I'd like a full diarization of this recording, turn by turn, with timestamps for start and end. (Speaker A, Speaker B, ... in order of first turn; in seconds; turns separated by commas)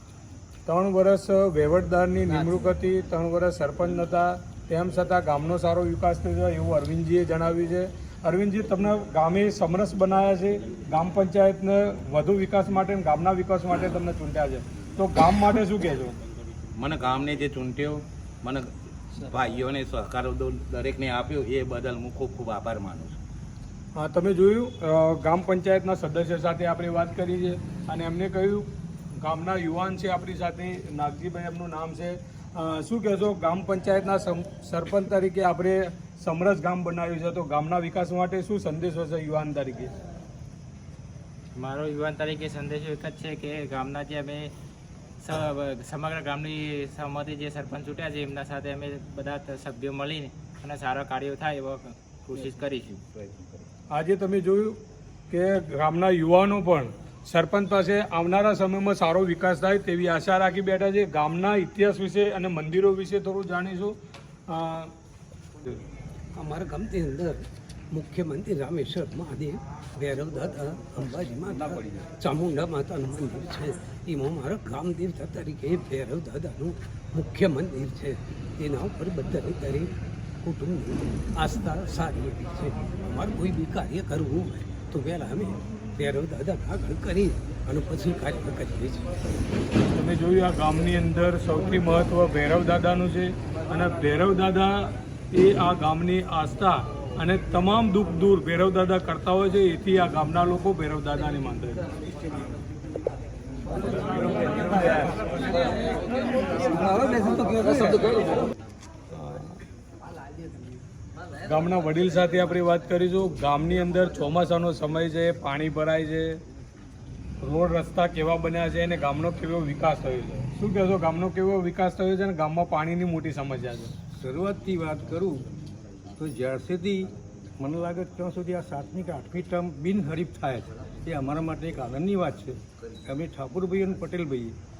Speaker A: 0.7-16.1, Speaker B: 16.7-23.2, Speaker A: 23.9-39.9, Speaker C: 41.5-44.5, Speaker C: 45.2-53.0, Speaker A: 53.9-54.8, Speaker A: 55.3-64.0, Speaker A: 64.5-64.9, Speaker D: 66.3-89.1, Speaker A: 89.9-101.8, Speaker A: 109.1-109.5, Speaker A: 111.4-116.4, Speaker A: 117.4-123.9, Speaker E: 124.2-125.4, Speaker E: 126.2-134.5